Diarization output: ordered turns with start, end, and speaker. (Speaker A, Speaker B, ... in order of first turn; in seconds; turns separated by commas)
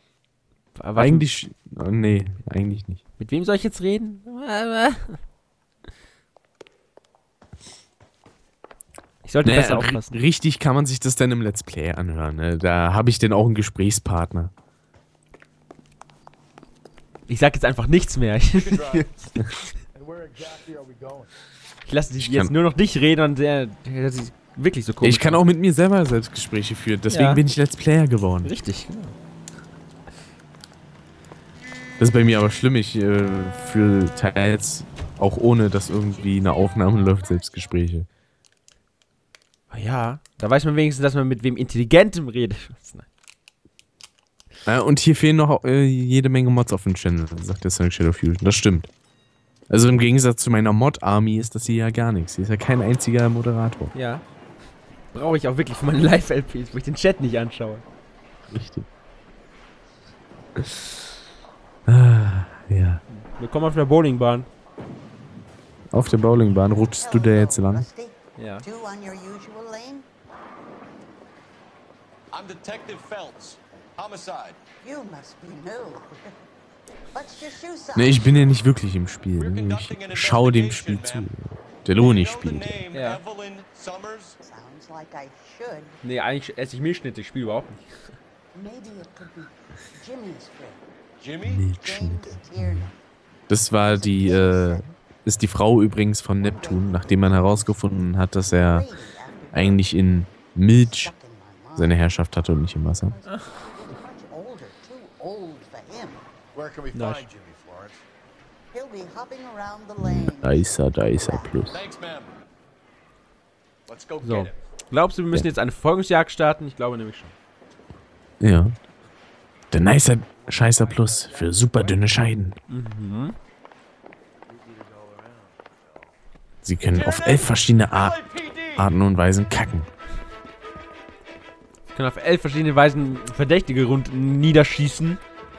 Speaker A: 0.8-1.3, Speaker B: 1.0-3.0, Speaker A: 3.2-5.2, Speaker A: 9.2-10.2, Speaker B: 9.4-14.5, Speaker A: 17.3-19.6, Speaker C: 18.5-19.2, Speaker D: 19.9-21.3, Speaker A: 21.9-25.4, Speaker B: 22.2-22.5, Speaker B: 25.0-28.5, Speaker A: 27.1-27.4, Speaker A: 28.4-29.1, Speaker B: 32.0-38.1, Speaker A: 39.7-43.1, Speaker B: 44.6-48.9, Speaker B: 49.7-53.9, Speaker A: 53.9-54.2, Speaker A: 55.1-57.9, Speaker B: 58.5-58.9, Speaker B: 60.6-60.9, Speaker B: 61.9-63.0, Speaker A: 63.1-64.5, Speaker B: 65.9-67.9, Speaker E: 66.9-70.1, Speaker A: 68.4-68.7, Speaker C: 72.3-74.6, Speaker E: 74.8-76.3, Speaker E: 77.1-78.5, Speaker B: 78.0-82.8, Speaker C: 79.4-81.3, Speaker C: 82.0-84.4, Speaker A: 82.9-83.2, Speaker E: 84.4-86.0, Speaker A: 86.0-88.1, Speaker E: 88.5-90.8, Speaker C: 91.2-91.7, Speaker B: 91.5-92.9, Speaker E: 91.7-93.0, Speaker B: 93.5-98.9, Speaker E: 93.8-94.9, Speaker E: 96.4-99.8, Speaker B: 99.5-101.1, Speaker E: 100.8-102.1, Speaker B: 101.8-103.2, Speaker E: 103.1-106.2, Speaker A: 103.3-103.5, Speaker D: 106.5-108.0, Speaker A: 106.9-107.2, Speaker E: 108.7-111.7, Speaker B: 110.0-111.8, Speaker C: 111.7-112.4, Speaker C: 113.9-114.6, Speaker A: 114.2-117.3, Speaker B: 118.4-118.8, Speaker B: 119.7-122.6, Speaker A: 122.7-123.4, Speaker B: 126.6-128.2, Speaker C: 126.9-128.9, Speaker B: 128.7-129.9, Speaker A: 131.9-135.2